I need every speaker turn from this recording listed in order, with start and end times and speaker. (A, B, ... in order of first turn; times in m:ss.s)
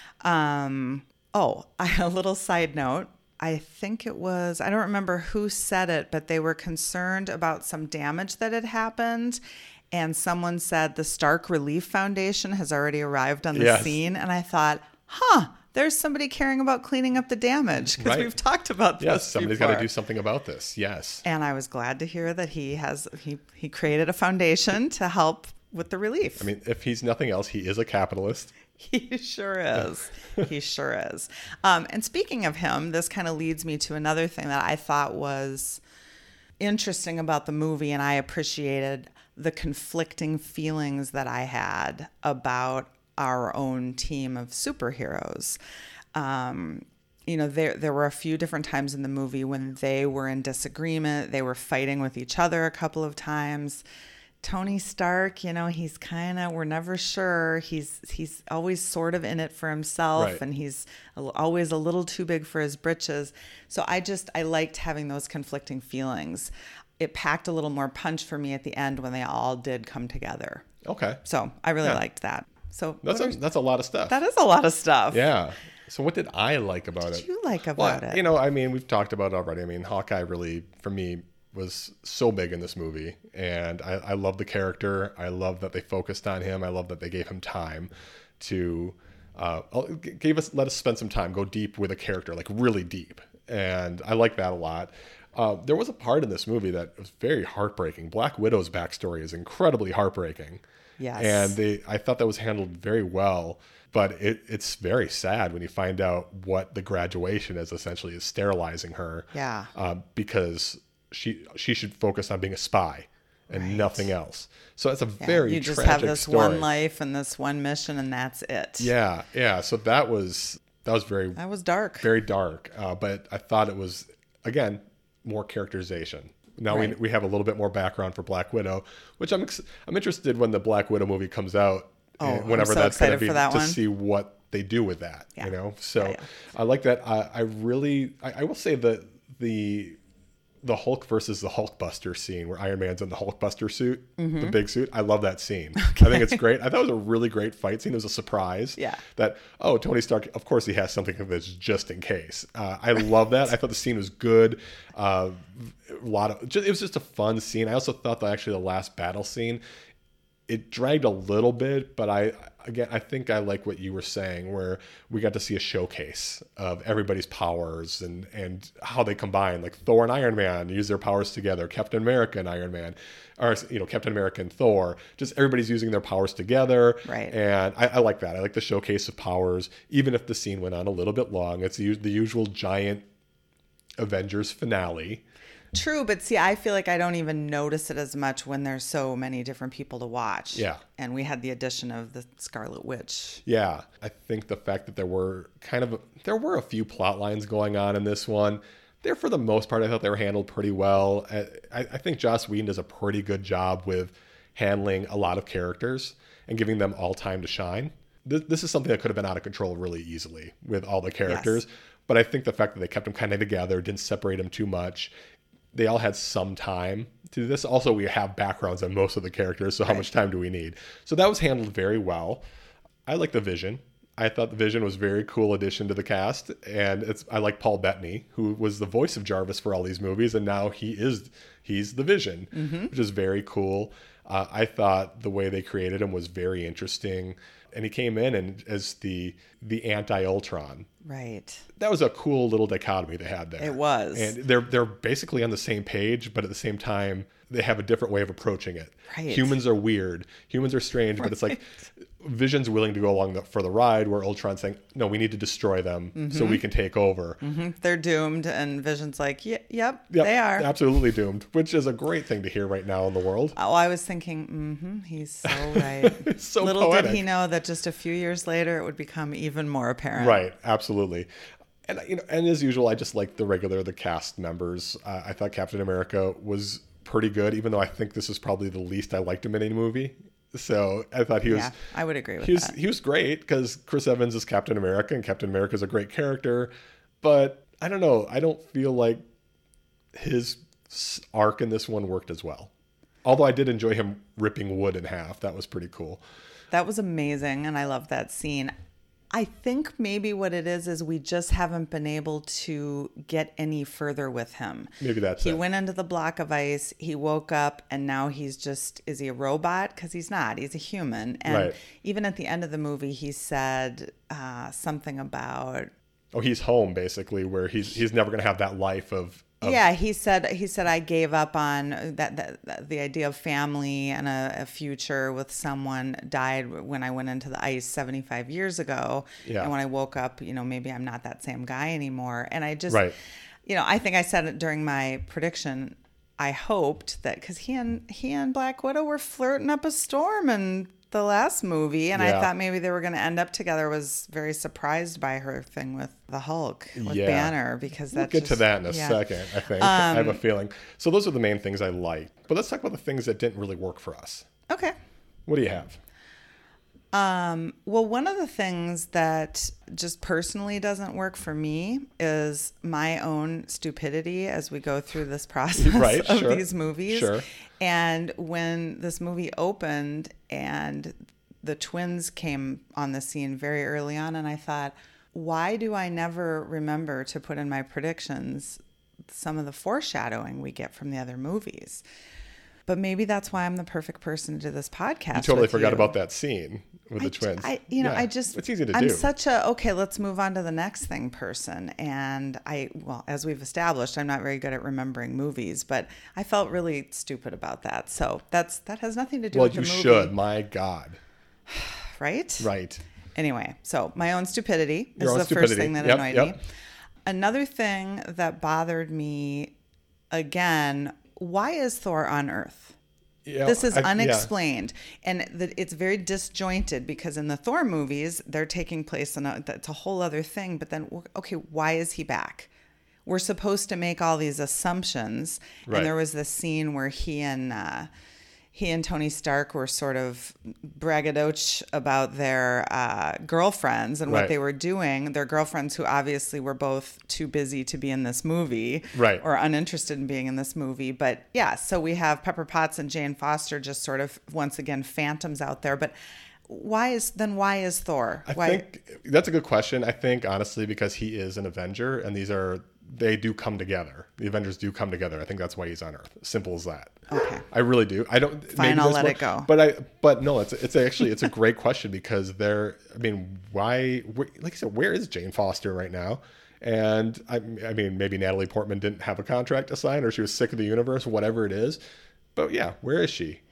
0:00.2-0:09.4 A
0:09.9-0:19.9 A
0:13.5-0:14.0 B
0:18.0-0:18.3 B
0:19.0-0:21.2 B
0:21.2-0:26.5 A
0:26.4-0:28.5 B
0:28.8-0:35.8 A
0:36.6-0:45.6 A
0:46.2-0:53.8 A
0:54.4-1:10.7 A
1:00.2-1:00.4 B
1:10.8-1:11.2 B
1:11.2-1:13.4 A
1:13.0-1:14.2 B
1:14.1-1:15.3 A
1:15.1-1:17.3 B
1:17.1-1:18.2 A
1:17.8-1:40.6 B
1:41.0-1:41.6 A
1:41.2-1:56.7 B
1:49.3-1:49.7 A
1:53.5-1:54.1 A
1:55.2-1:58.9 A
1:58.8-2:01.4 B
2:01.4-2:02.1 A
2:02.0-2:20.0 B
2:06.7-2:07.0 A
2:12.2-2:13.8 A
2:15.4-2:16.2 A
2:20.6-2:39.6 B
2:24.2-2:24.6 A
2:25.8-2:26.4 A
2:28.8-2:29.0 A
2:40.5-3:03.0 B
2:57.0-2:57.4 A
3:04.0-3:05.2 B
3:05.7-3:13.4 A
3:10.6-3:10.8 B
3:13.5-3:35.1 B
3:31.3-3:31.6 A
3:35.7-3:42.4 B
3:43.1-4:00.9 B
3:52.5-3:52.9 A
4:01.0-4:01.7 A
4:01.8-4:17.4 B
4:03.6-4:04.4 A
4:09.1-4:09.6 A
4:11.2-4:11.6 A
4:16.2-4:16.6 A
4:17.4-4:20.7 A
4:20.1-4:23.6 B
4:23.6-4:30.4 A
4:25.4-4:27.2 B
4:30.2-4:31.3 B
4:31.9-4:41.7 B
4:41.5-4:42.8 A
4:42.4-4:46.7 B
4:47.2-4:49.2 B
4:50.1-4:52.7 B
4:53.2-4:56.2 B
4:56.7-4:58.7 A
4:59.3-5:15.9 A
5:05.0-5:05.6 B
5:11.5-5:11.8 B
5:16.3-5:19.8 B
5:19.6-5:33.1 A
5:29.4-5:29.7 B
5:32.9-5:33.2 B
5:33.7-5:49.2 A
5:42.2-5:42.5 B
5:47.0-5:47.5 B
5:48.1-5:54.5 B
5:49.8-5:50.4 A
5:54.7-5:54.9 A
5:55.5-5:56.0 B
5:57.1-6:18.8 A
6:05.8-6:07.4 B
6:19.3-6:22.0 A
6:22.9-6:26.2 A
6:25.3-6:29.3 B
6:27.2-6:40.3 A
6:39.5-6:41.2 B
6:41.7-6:42.7 A
6:42.6-6:43.0 B
6:43.4-6:46.6 A
6:45.2-6:46.6 B
6:47.3-6:49.7 A
6:50.3-6:53.0 A
6:53.4-6:54.5 B
6:53.6-7:02.7 A
7:03.2-7:08.1 A
7:08.7-7:26.1 A
7:14.3-7:14.5 B
7:19.1-7:19.4 B
7:26.7-7:28.8 A
7:28.5-7:52.0 B
7:37.3-7:37.6 A
7:38.7-7:39.7 A
7:52.6-7:53.6 B